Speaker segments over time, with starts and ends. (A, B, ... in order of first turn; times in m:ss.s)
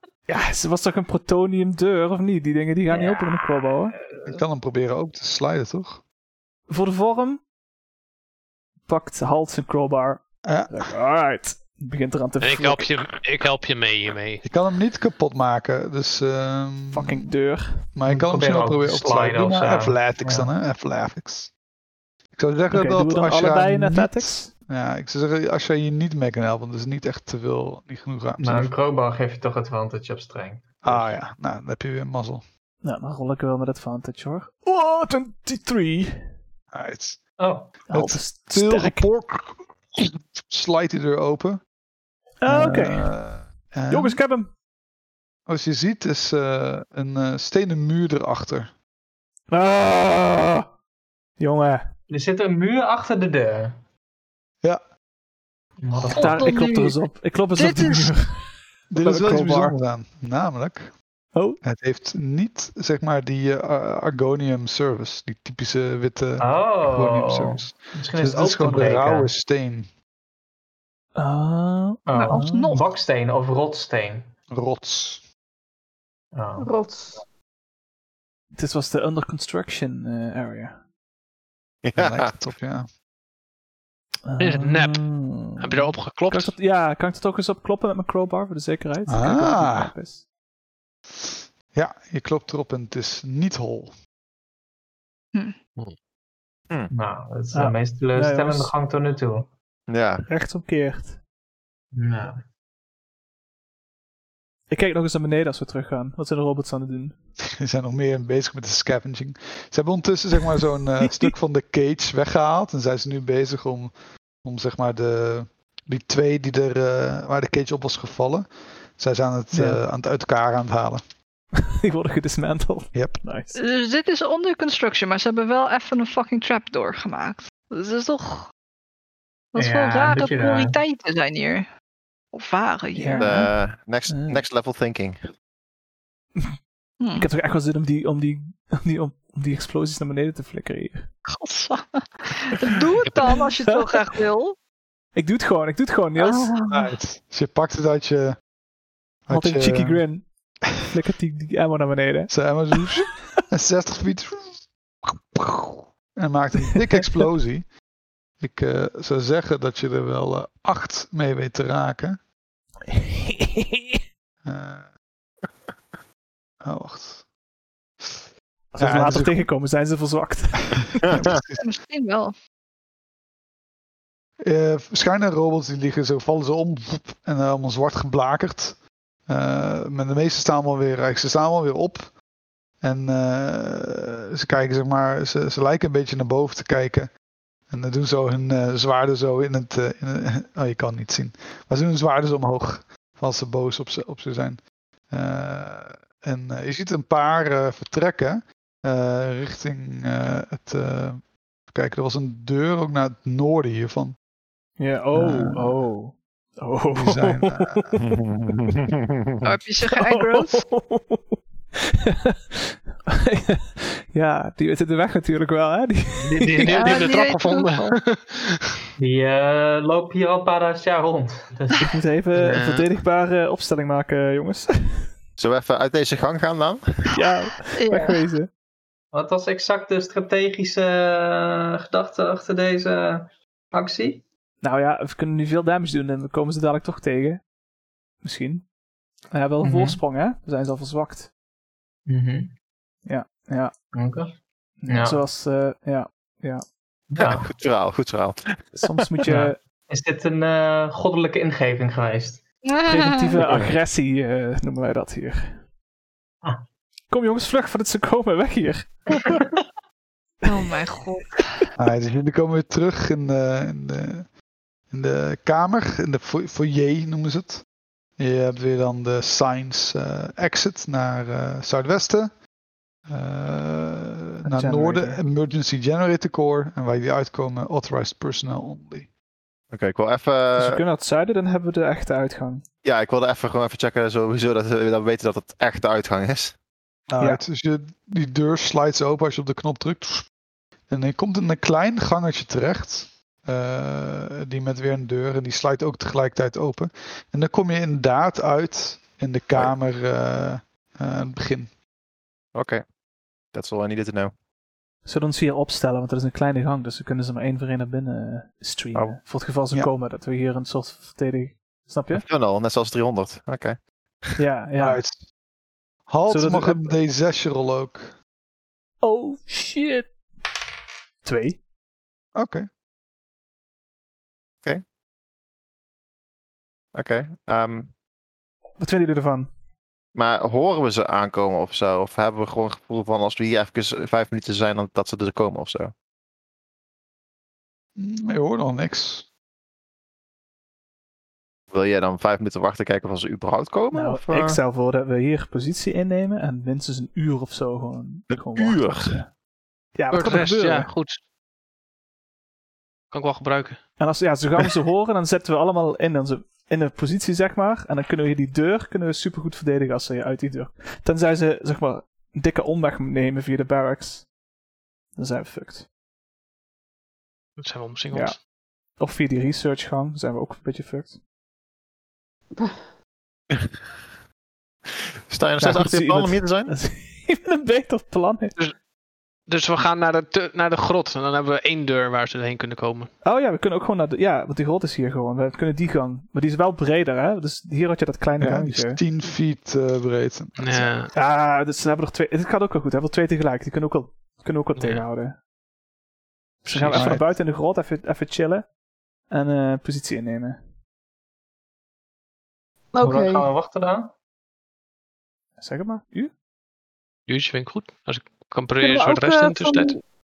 0:00.3-0:04.0 A
0:02.9-0:03.4 B
0:04.3-0:06.0 C
0:06.7-0:07.4 A
0:08.9-0:12.9 A
0:10.4-0:10.8 C
0:12.4-0:14.4 D
0:14.4-0:17.3 C
0:16.9-0:17.9 A
0:17.9-0:21.5 C
0:18.1-0:20.5 B
0:22.3-0:28.7 C
0:22.7-0:24.5 A
0:28.4-0:31.1 B
0:30.8-0:32.4 C
0:32.8-0:36.2 A
0:36.7-0:37.3 C
0:37.4-0:37.7 B
0:37.9-0:39.1 A
0:37.9-0:41.6 C
0:42.4-0:43.1 A
0:42.5-0:44.2 C
0:43.9-0:44.5 A
0:45.5-0:48.7 C
0:49.5-0:50.7 A
0:51.4-0:51.9 A
0:52.1-0:53.8 B
0:55.8-0:56.5 B
0:56.1-0:57.0 E
0:56.1-0:58.4 A
0:57.6-0:58.1 E
0:58.9-1:01.0 C
0:59.0-0:59.7 B
1:01.3-1:01.6 A
1:01.6-1:09.9 C
1:06.4-1:09.3 B
1:11.2-1:12.8 A
1:12.1-1:14.3 B
1:12.1-1:12.8 E
1:14.5-1:15.2 C
1:16.3-1:16.7 B
1:16.6-1:17.2 F
1:18.5-1:20.8 A
1:21.8-1:22.3 G
1:22.0-1:22.9 C
1:24.2-1:30.2 A
1:24.4-1:25.1 D
1:25.6-1:26.6 D
1:29.1-1:29.9 C
1:31.1-1:33.9 C
1:36.9-1:39.5 B
1:37.5-1:38.7 A
1:39.9-1:40.2 G
1:40.3-1:41.2 A
1:41.9-1:42.4 B
1:44.7-1:47.2 A
1:47.6-2:01.0 C
1:59.5-1:59.8 A
2:01.8-2:03.6 A
2:02.9-2:03.2 C
2:03.6-2:08.5 E
2:09.5-2:11.7 E
2:09.6-2:10.8 B
2:12.3-2:13.5 E
2:13.0-2:13.5 A
2:13.2-2:15.2 G
2:14.1-2:14.4 A
2:17.0-2:17.3 E
2:17.2-2:21.1 A
2:21.3-2:24.6 E
2:23.0-2:23.3 D
2:23.2-2:24.1 A
2:25.2-2:26.5 A
2:26.2-2:26.9 E
2:26.7-2:28.4 C
2:29.3-2:30.1 C
2:29.3-2:32.9 A
2:32.3-2:37.7 C
2:38.4-2:42.2 C
2:42.9-2:44.0 A
2:44.4-2:44.9 C
2:46.6-2:47.3 C
2:48.0-2:48.3 C
2:48.7-2:50.8 A
2:48.8-2:49.5 C
2:51.0-2:51.7 C
2:51.0-2:51.4 G
2:51.6-2:52.3 E
2:54.4-3:02.2 C
3:02.8-3:07.1 C
3:07.7-3:24.2 C
3:24.8-3:27.9 A
3:25.1-3:25.8 C
3:26.9-3:27.9 C
3:28.0-3:29.5 G
3:28.5-3:28.8 A
3:29.4-3:30.7 E
3:29.9-3:36.7 A
3:36.3-3:38.8 D
3:36.6-3:38.0 E
3:39.0-3:41.9 B
3:41.8-3:45.1 A
3:42.5-3:42.9 D
3:45.4-3:47.1 G
3:47.1-3:48.5 A
3:47.8-3:48.2 E
3:49.1-3:54.2 B
3:54.6-3:57.4 A
3:58.2-3:58.7 A
3:59.3-4:01.3 A
3:59.6-4:00.0 B
4:02.1-4:02.5 B
4:03.1-4:03.7 A
4:04.0-4:05.2 B
4:04.8-4:06.6 A
4:07.1-4:07.5 B
4:07.2-4:09.0 G
4:08.8-4:09.6 A
4:09.3-4:12.4 B
4:12.6-4:13.4 E
4:12.9-4:15.6 A
4:13.4-4:13.7 G
4:17.1-4:19.2 A
4:20.4-4:21.5 E
4:21.8-4:24.3 C
4:24.9-4:27.6 C
4:28.2-4:32.3 C
4:33.1-4:39.1 C
4:34.4-4:35.2 A
4:39.7-4:40.8 G
4:40.6-4:42.6 A
4:42.8-4:46.6 G
4:47.1-4:50.3 C
4:50.9-5:01.7 C
5:02.5-5:02.8 G
5:03.5-5:04.3 G
5:05.0-5:12.2 A
5:08.9-5:09.2 G
5:12.1-5:14.4 G
5:14.4-5:15.0 A
5:14.8-5:15.3 C
5:16.1-5:18.2 C
5:16.3-5:17.0 A
5:19.0-5:20.1 A
5:21.2-5:21.6 A
5:22.4-5:22.7 C
5:26.9-5:27.9 G
5:28.8-5:29.5 A
5:30.2-5:35.9 G
5:38.0-5:39.3 C
5:41.7-5:44.6 G
5:43.9-5:49.3 A
5:48.3-5:49.2 G
5:50.0-5:50.9 A
5:50.1-5:51.2 D
5:53.1-5:53.8 D
5:54.0-6:04.3 A
6:05.2-6:05.9 A
6:07.6-6:08.4 D
6:08.1-6:11.2 A
6:15.3-6:16.7 G
6:15.6-6:18.6 A
6:19.5-6:23.1 D
6:23.2-6:29.0 A
6:28.4-6:30.9 C
6:30.6-6:31.1 D
6:31.1-6:35.4 A
6:34.8-6:35.0 D
6:36.6-6:38.7 A
6:36.7-6:37.1 D
6:36.9-6:37.3 C
6:39.3-6:40.6 A
6:42.9-6:43.5 F
6:43.0-6:44.1 B
6:45.6-6:46.3 A
6:47.3-6:49.9 D
6:48.8-6:50.0 F